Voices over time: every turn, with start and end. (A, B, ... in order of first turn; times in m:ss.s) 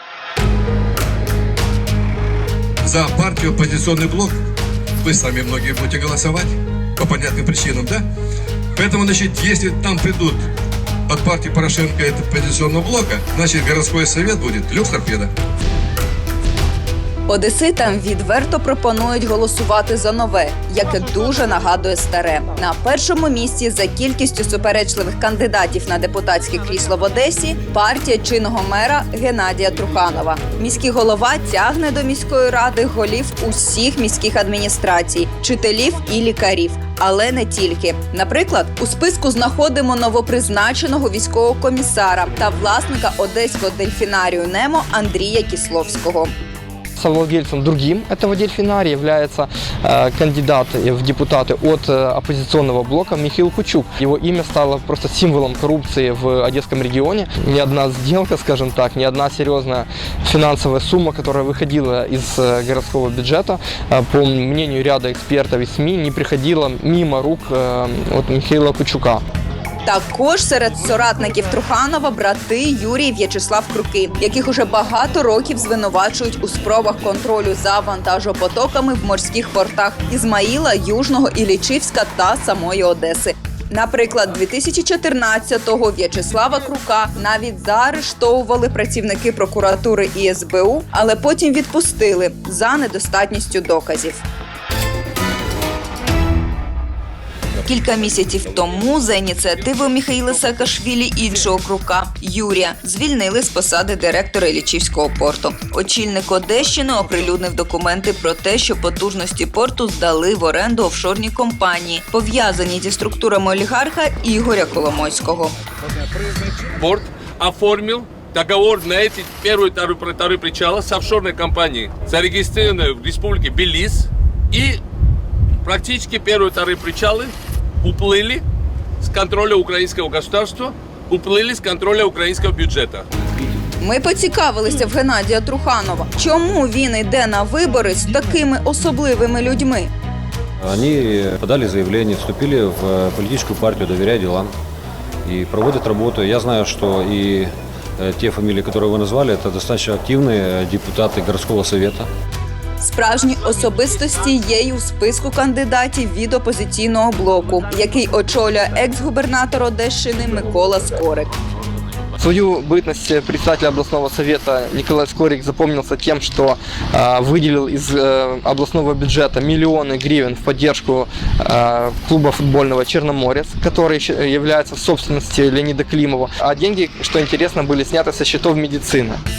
0:02.8-0:04.4 A
0:05.0-0:08.0 A
0:08.8-0:10.4 A
0:11.1-0:15.3 A
0:17.3-0:46.3 B
0:47.0-1:09.2 C
1:09.9-1:34.2 B
1:37.6-1:55.5 B
1:56.7-2:04.8 D
2:05.6-2:08.4 D
2:09.0-2:13.0 D
2:13.8-2:19.9 B
2:20.7-2:24.5 E
2:25.3-2:27.4 E
2:28.0-2:32.0 E
2:32.8-2:41.3 B
2:42.2-2:59.2 C